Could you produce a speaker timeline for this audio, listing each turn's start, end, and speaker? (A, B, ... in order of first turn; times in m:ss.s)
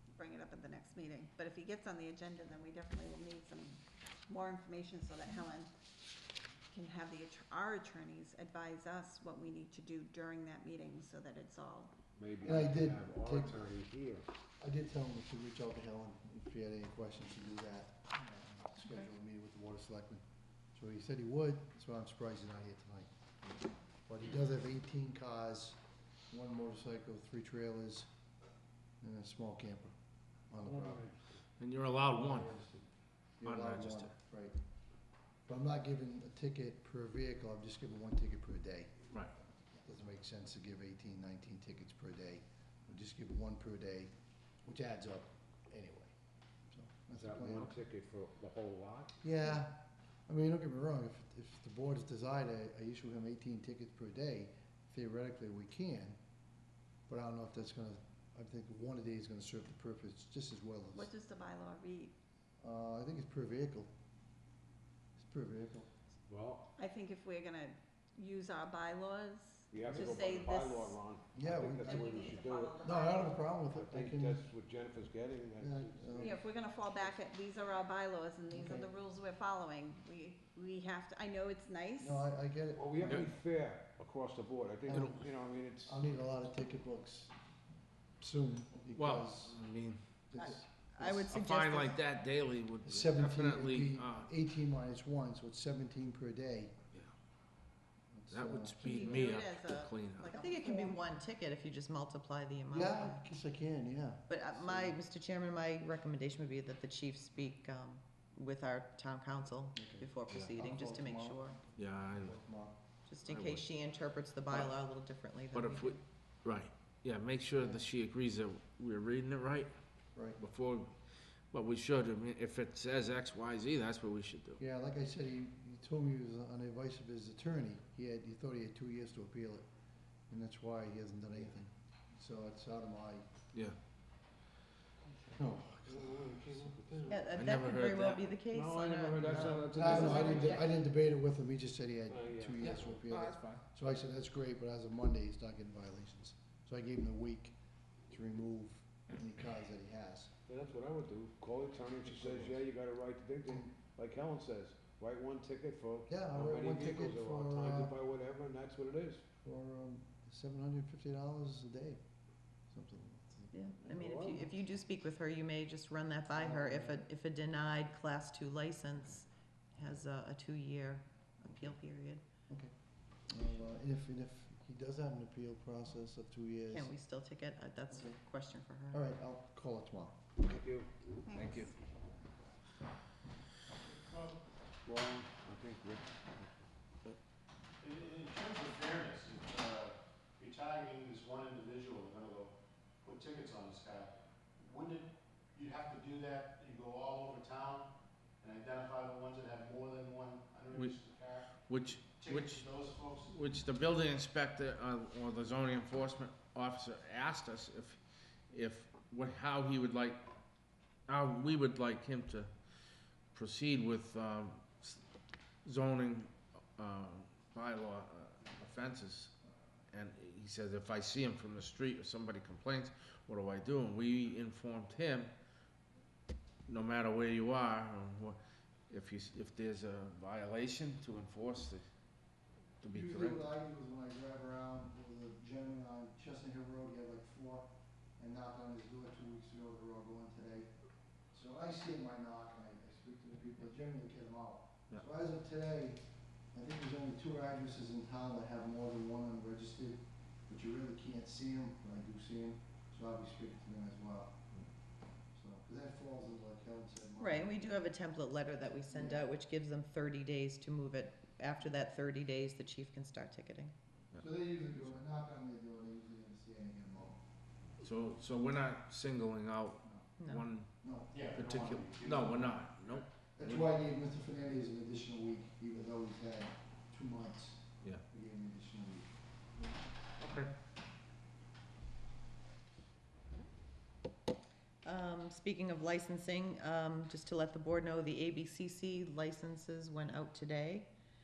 0:00.2-0:05.7 A
0:06.7-0:11.9 A
0:12.2-0:14.3 B
0:12.4-0:13.7 C
0:14.6-0:20.2 C
0:20.7-0:23.1 C
0:24.1-0:25.8 C
0:26.3-0:28.1 C
0:29.0-0:29.9 C
0:30.5-0:31.0 C
0:30.6-0:31.3 B
0:31.6-0:32.6 D
0:32.3-0:32.8 C
0:33.4-0:34.6 C
0:33.4-0:34.1 D
0:35.5-0:38.9 C
0:39.7-0:44.1 C
0:44.6-0:46.1 C
0:46.7-0:47.8 C
0:47.1-0:49.2 B
0:49.2-0:56.2 C
0:57.1-1:01.1 C
1:00.9-1:02.2 A
1:02.6-1:03.9 C
1:05.2-1:05.9 C
1:06.3-1:06.7 B
1:06.8-1:11.0 A
1:09.7-1:12.8 B
1:09.9-1:10.1 C
1:11.3-1:12.2 C
1:11.8-1:13.3 A
1:12.8-1:14.4 C
1:13.7-1:16.4 B
1:15.6-1:16.4 C
1:16.2-1:22.2 A
1:18.5-1:18.9 C
1:22.0-1:23.3 C
1:22.8-1:26.0 B
1:24.9-1:25.3 C
1:25.8-1:27.3 C
1:28.2-1:29.6 C
1:29.0-1:30.0 D
1:30.3-1:31.3 C
1:30.4-1:31.9 A
1:31.0-1:31.8 E
1:31.3-1:34.3 D
1:32.8-1:36.8 C
1:38.1-1:39.2 C
1:38.3-1:40.4 D
1:38.8-1:41.0 A
1:40.3-1:43.2 E
1:42.7-1:45.0 C
1:44.3-1:51.6 E
1:49.7-1:52.8 C
1:51.8-1:52.4 D
1:53.1-1:56.0 E
1:53.2-1:53.7 D
1:54.5-1:54.8 D
1:55.5-1:59.7 D
1:57.6-1:57.9 C
2:00.3-2:00.9 D
2:01.5-2:04.6 D
2:04.6-2:09.7 C
2:10.3-2:13.3 C
2:15.1-2:17.3 B
2:15.4-2:16.6 C
2:17.1-2:20.7 E
2:17.3-2:18.4 D
2:18.5-2:20.6 B
2:19.3-2:20.4 D
2:19.7-2:27.6 C
2:22.1-2:22.9 B
2:22.6-2:23.6 D
2:28.1-2:30.3 C
2:30.5-2:39.2 B
2:32.2-2:32.5 D
2:36.1-2:38.0 C
2:39.4-2:42.0 C
2:42.7-2:44.0 C
2:43.5-2:52.2 E
2:43.9-2:44.5 B
2:46.3-2:47.1 C
2:53.3-2:57.0 C
2:56.7-2:59.0 E
2:57.9-2:58.2 C
2:58.9-3:00.2 C
3:00.4-3:00.9 B
3:01.2-3:01.7 A
3:01.3-3:01.7 D
3:04.1-3:04.4 F
3:04.8-3:06.5 B
3:07.8-3:12.5 F
3:13.0-3:17.9 F
3:18.4-3:21.5 F
3:21.6-3:28.0 D
3:22.2-3:23.4 F
3:28.5-3:30.2 D
3:31.1-3:32.5 D
3:33.3-3:35.0 D
3:35.6-3:39.3 D
3:39.9-3:45.3 D
3:46.7-3:48.4 D
3:48.9-3:51.8 D
3:52.8-3:53.5 D
3:52.9-4:00.7 C
4:01.3-4:06.0 C
4:06.5-4:14.4 C
4:15.4-4:17.5 C
4:17.2-4:23.7 E
4:18.9-4:19.3 C
4:24.2-4:27.2 C
4:27.8-4:30.7 D
4:29.8-4:30.1 C
4:30.2-4:30.5 E
4:30.8-4:39.1 C
4:31.1-4:32.2 F
4:31.3-4:33.7 D
4:40.2-4:40.5 D
4:44.8-4:50.9 E